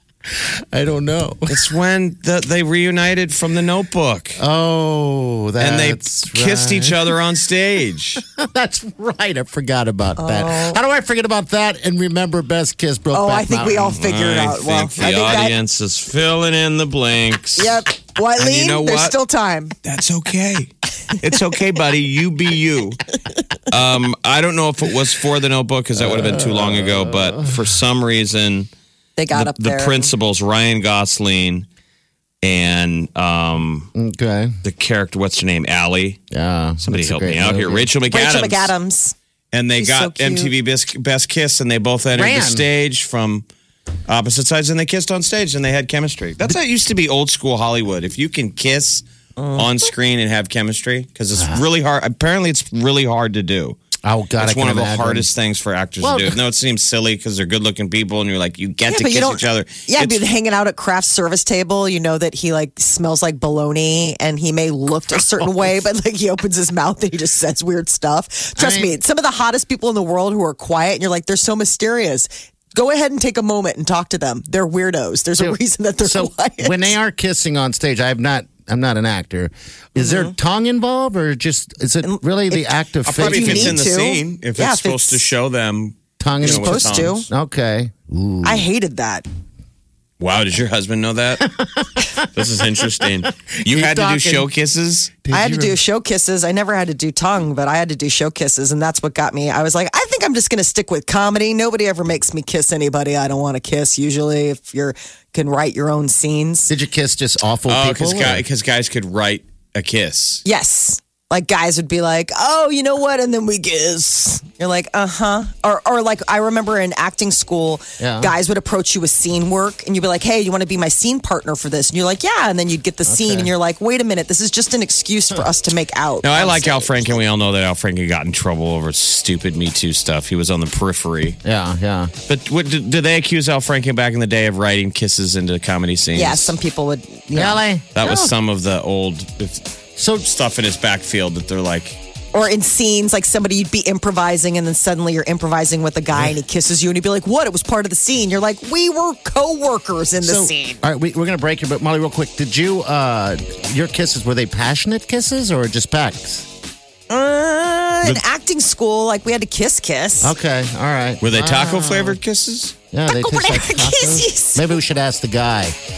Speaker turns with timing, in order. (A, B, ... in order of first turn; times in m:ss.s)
0:00.3-0:01.6 A
0:01.5-0:04.4 B
0:04.4-0:07.1 A
0:05.6-0:08.2 B
0:08.4-0:14.0 A
0:10.2-0:10.8 C
0:13.1-0:15.6 C
0:13.9-0:17.8 B
0:17.6-0:19.8 C
0:18.4-0:19.2 B
0:19.8-0:23.0 B
0:23.7-0:28.7 B
0:26.0-0:27.7 A
0:29.2-0:30.1 C
0:29.3-0:31.7 B
0:32.4-0:33.9 B
0:34.0-0:34.6 A
0:34.6-0:36.2 B
0:36.3-0:37.9 A
0:36.8-0:38.7 B
0:38.1-0:39.2 C
0:39.5-0:43.4 B
0:39.8-0:40.5 C
0:42.1-0:42.6 A
0:44.1-0:53.8 B
0:49.4-0:49.9 C
0:51.4-0:51.6 A
0:54.0-0:55.3 A
0:54.4-1:00.3 B
0:56.0-0:56.4 A
0:58.9-1:17.0 C
1:05.4-1:05.7 A
1:08.6-1:08.9 A
1:15.4-1:23.8 A
1:20.0-1:20.4 C
1:22.0-1:25.2 C
1:23.1-1:27.2 B
1:26.2-1:28.7 A
1:26.4-1:27.3 C
1:28.4-1:29.3 C
1:30.2-1:31.5 B
1:31.4-1:32.3 A
1:32.3-1:35.2 B
1:33.2-1:34.5 A
1:35.2-1:35.8 A
1:35.3-1:46.7 C
1:46.7-1:48.4 A
1:47.7-1:50.4 B
1:50.4-2:07.2 C
1:58.0-1:58.3 A
2:03.1-2:03.5 A
2:06.2-2:11.4 B
2:11.4-2:12.1 A
2:12.3-2:16.6 B
2:16.2-2:17.6 C
2:17.4-2:18.3 A
2:18.0-2:22.0 B
2:20.0-2:20.2 A
2:22.3-2:30.8 C
2:30.2-2:36.5 A
2:37.1-2:40.4 C
2:40.2-2:42.2 A
2:41.2-2:42.8 B
2:42.9-2:45.8 A
2:43.1-2:44.8 C